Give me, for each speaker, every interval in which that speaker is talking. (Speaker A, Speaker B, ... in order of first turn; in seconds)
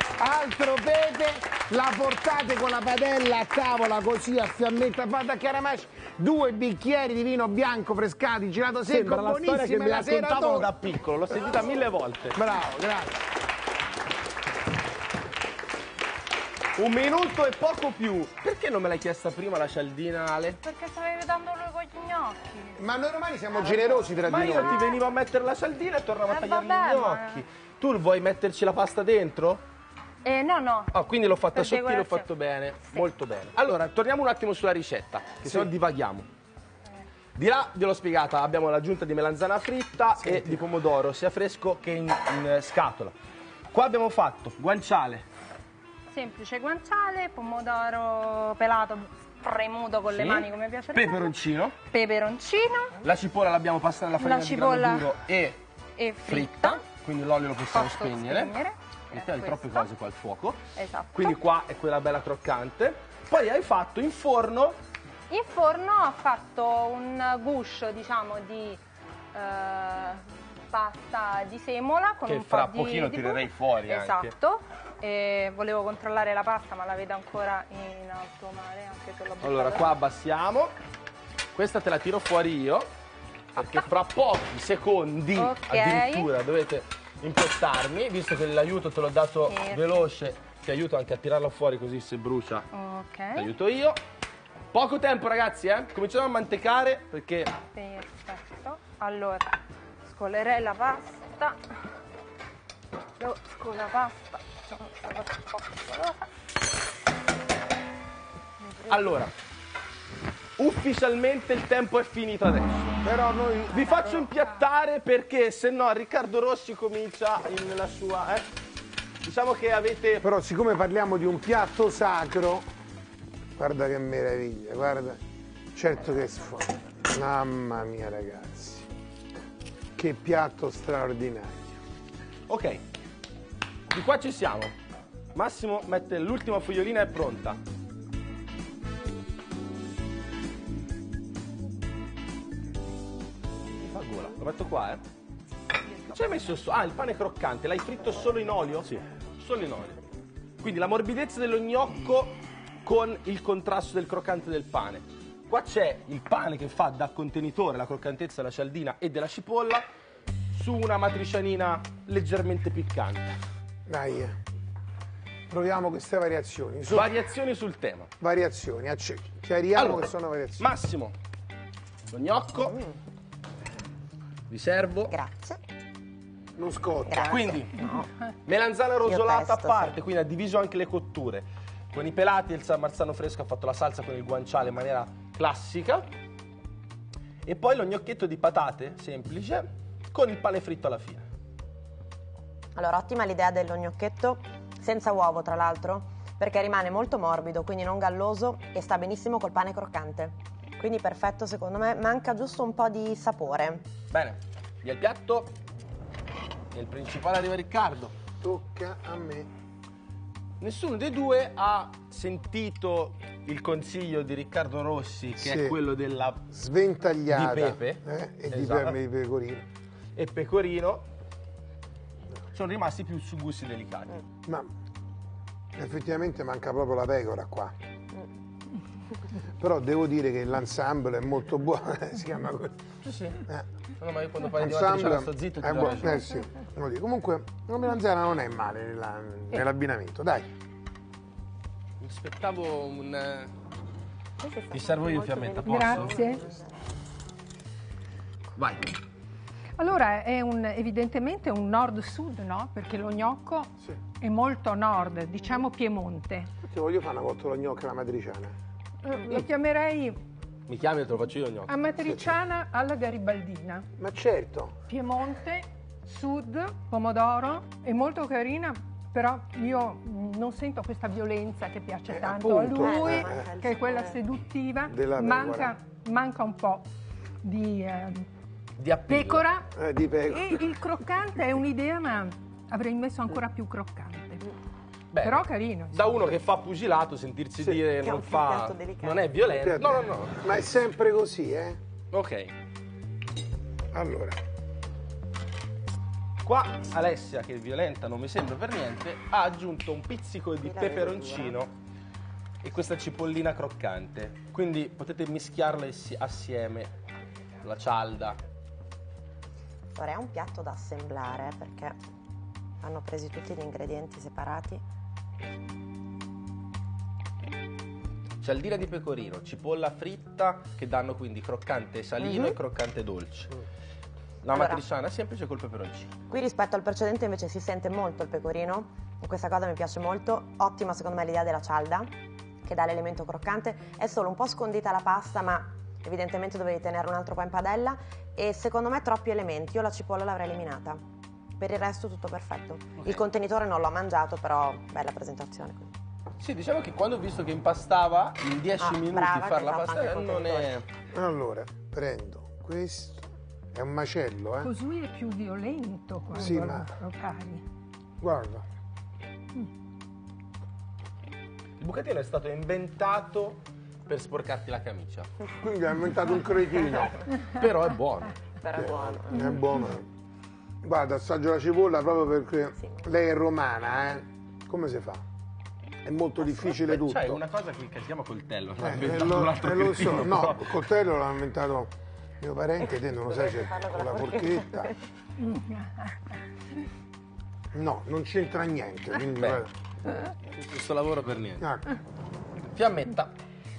Speaker A: 0.2-10.7, 12.3-13.2, 22.8-25.0, 35.4-35.7, 40.2-40.6, 113.0-113.8, 120.2-122.7, 123.6-125.2, 125.8-128.9, 130.0-131.8, 163.9-164.4, 165.5-167.2, 168.2-170.7, 176.6-177.5, 208.4-209.5, 215.4-215.8, 216.5-219.7, 224.4-224.7, 225.8-227.8, 229.6-232.8, 233.4-233.7, 234.5-240.5, 256.6-258.6, 264.0-264.8, 272.1-273.5, 274.9-275.8, 279.8-280.7, 289.5-291.8, 293.9-294.4, 351.1-354.7, 356.3-356.9, 358.2-358.6, 365.6-367.2, 368.8-370.1, 370.8-375.2, 376.0-377.4, 378.8-384.9, 387.7-389.7, 391.6-391.9
Speaker B: 8.9-12.4, 16.8-20.6, 24.2-29.6, 30.9-36.3, 37.4-43.2, 43.7-45.3, 50.1-51.8, 53.0-55.6, 56.3-58.5, 59.1-64.8, 72.3-74.3, 79.4-80.7, 81.5-82.9, 83.5-92.7, 93.3-94.0, 94.7-97.5, 108.9-109.3, 110.6-113.0, 113.7-118.5, 119.2-120.3, 132.5-132.8, 133.9-134.7, 135.3-137.6, 143.8-145.0, 146.1-150.0, 150.6-159.8, 160.5-163.4, 166.9-168.1, 169.8-171.2, 172.1-172.8, 174.5-175.2, 177.2-177.8, 178.5-186.1, 187.5-191.3, 204.1-205.5, 206.7-208.1, 210.6-216.5, 217.3-219.0, 220.2-221.1, 222.5-224.2, 233.0-233.4, 234.0-236.2, 242.0-243.5, 244.7-246.2, 248.6-248.9, 260.7-261.8, 278.8-279.4, 285.1-290.4, 292.1-292.5, 296.4-301.7, 302.6-306.9, 307.6-308.4, 318.4-323.6, 324.4-326.1, 346.4-350.9, 361.8-365.3, 367.5-368.4, 376.7-380.8, 389.4-389.7, 390.5-391.7, 392.7-393.3
Speaker C: 20.6-22.8, 23.6-23.9, 26.3-27.4, 30.2-32.3, 46.1-53.0, 54.2-55.1, 56.0-56.8, 57.7-59.9, 60.8-61.4, 65.3-68.8, 69.3-80.0, 85.4-86.3, 89.5-90.1, 92.7-93.5, 97.7-99.5, 100.0-101.7, 103.2-106.3, 108.6-109.2, 113.7-114.5
Speaker D: 172.6-173.0, 175.1-175.6, 177.1-178.1, 179.1-180.0, 192.8-203.8, 244.4-246.7, 272.8-274.2, 287.9-289.3, 300.6-301.6, 309.9-312.0, 312.8-314.8, 322.2-322.6, 324.5-324.8, 326.3-332.1, 332.6-341.0, 341.6-345.9, 348.8-350.8, 368.6-369.6, 383.1-385.0
Speaker E: 245.6-246.4, 249.8-256.5, 259.0-260.2, 261.7-263.9, 264.9-276.9, 277.4-278.3, 279.1-279.7, 280.3-284.4, 285.2-286.1, 354.6-357.6, 385.4-386.4